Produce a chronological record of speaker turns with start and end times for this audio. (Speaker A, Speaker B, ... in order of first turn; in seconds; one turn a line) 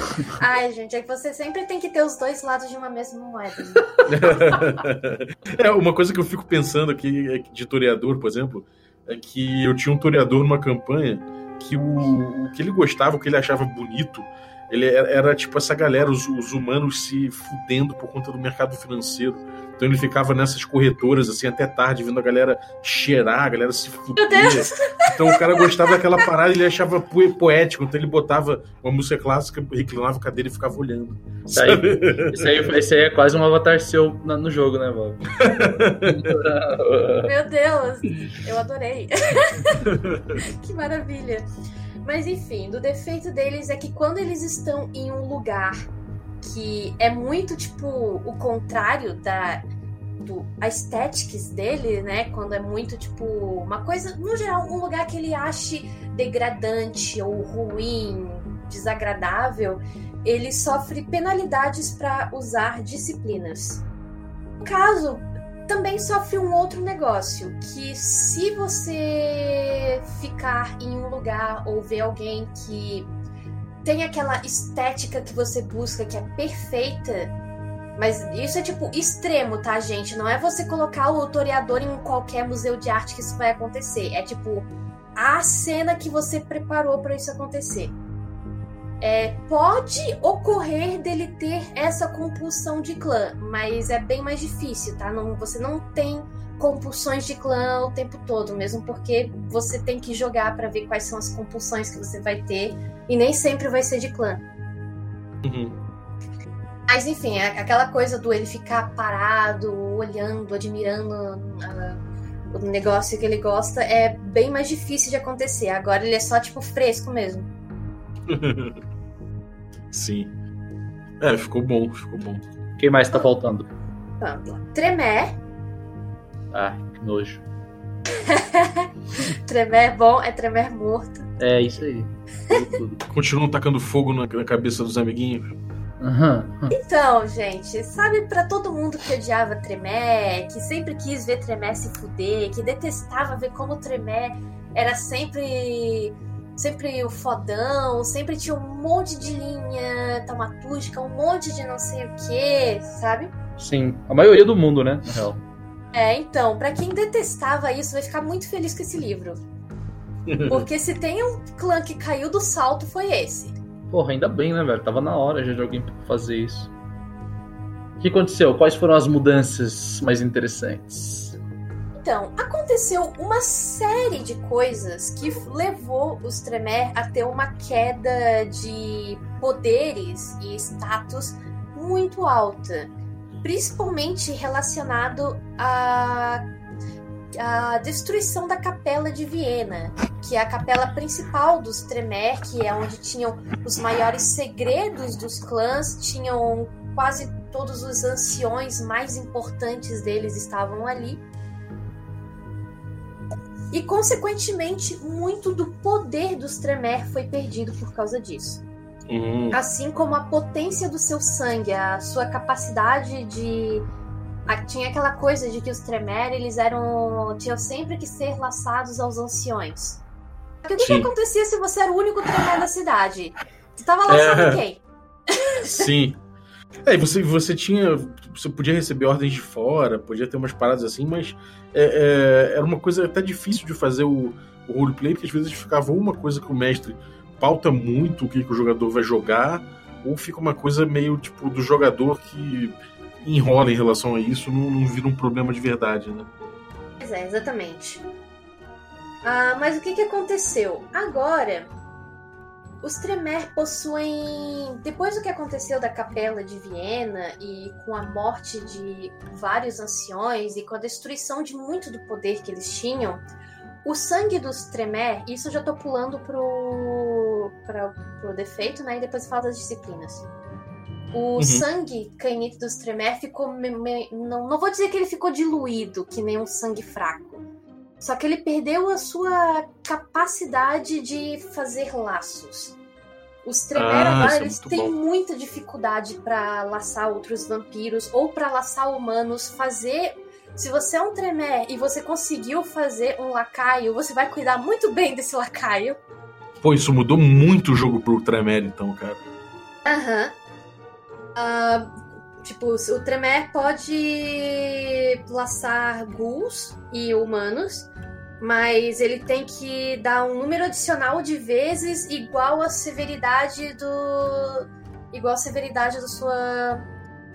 Speaker A: 0.4-4.7
Speaker B: 4.1-32.7
Speaker A: 24.2-26.2
Speaker C: 31.5-35.4
Speaker B: 35.4-36.3
Speaker C: 36.0-37.3
Speaker A: 37.2-39.8
Speaker B: 39.8-40.4
Speaker A: 40.4-41.5
Speaker A: 42.0-45.8
Speaker A: 46.4-49.6
Speaker A: 50.2-63.8
Speaker A: 64.6-73.1
Speaker A: 73.8-77.3
Speaker A: 78.0-88.0
Speaker A: 89.0-104.4
Speaker B: 105.4-105.8
Speaker A: 106.9-117.5
Speaker B: 118.3-118.8
Speaker B: 119.9-120.3
Speaker B: 121.2-122.5
Speaker C: 122.8-123.7
Speaker A: 124.2-125.3
Speaker C: 126.5-127.4
Speaker A: 128.2-131.3
Speaker C: 131.4-133.0
Speaker B: 133.1-135.5
Speaker C: 136.0-136.7
Speaker A: 136.7-153.3
Speaker C: 153.6-155.4
Speaker A: 155.9-159.4
Speaker B: 160.3-160.7
Speaker A: 160.5-163.6
Speaker C: 163.9-166.7
Speaker C: 168.0-171.4
Speaker A: 171.9-182.9
Speaker A: 183.4-186.4
Speaker A: 187.4-201.2
Speaker A: 203.7-208.6
Speaker B: 209.1-209.6
Speaker A: 209.5-213.9
Speaker A: 214.5-220.0
Speaker A: 220.6-225.9
Speaker B: 220.8-221.1
Speaker B: 224.1-224.6
Speaker B: 225.7-226.2
Speaker B: 226.8-246.3
Speaker A: 247.0-248.0
Speaker A: 249.2-251.7
Speaker A: 252.8-263.2
Speaker A: 263.8-270.2
Speaker A: 271.1-277.4
Speaker B: 271.4-271.6
Speaker A: 278.0-282.8
Speaker A: 283.4-296.0
Speaker B: 283.8-284.9
Speaker B: 296.6-299.2
Speaker A: 299.9-300.3
Speaker A: 301.4-316.8